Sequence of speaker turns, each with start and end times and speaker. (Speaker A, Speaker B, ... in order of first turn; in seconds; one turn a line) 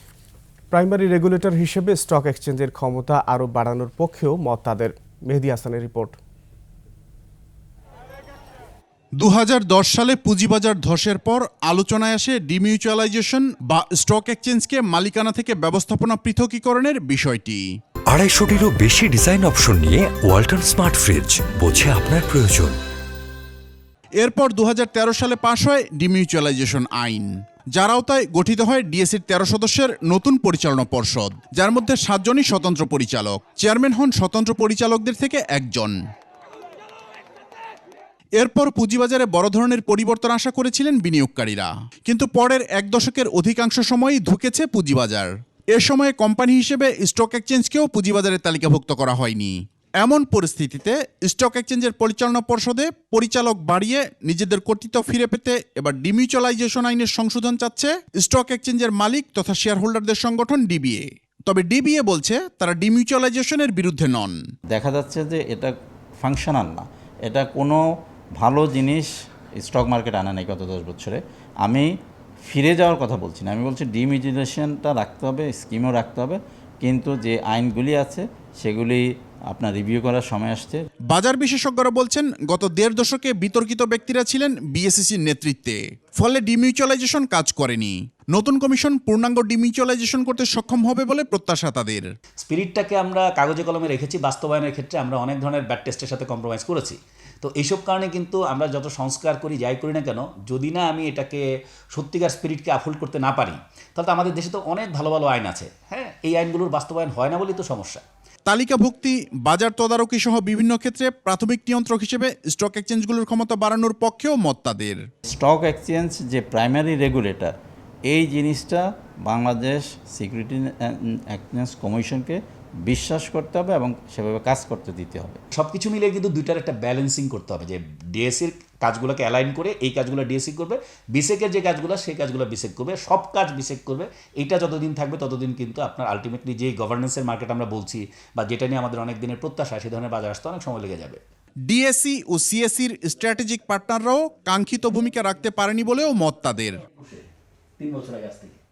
Speaker A: 0.7-6.2
Speaker B: 9.2-17.6
Speaker C: 18.1-22.8
Speaker B: 24.2-35.9
Speaker B: 38.4-64.3
Speaker D: 64.7-67.8
Speaker D: 68.3-71.9
Speaker D: 72.4-80.8
Speaker B: 81.1-92.1
Speaker E: 92.4-108.0
Speaker B: 108.5-115.0
Speaker D: 115.2-117.5
Speaker D: 118.1-125.4
Speaker E: 125.5-141.2
Speaker B: 141.7-146.8
Speaker E: 146.9-147.2
Speaker E: 147.8-148.6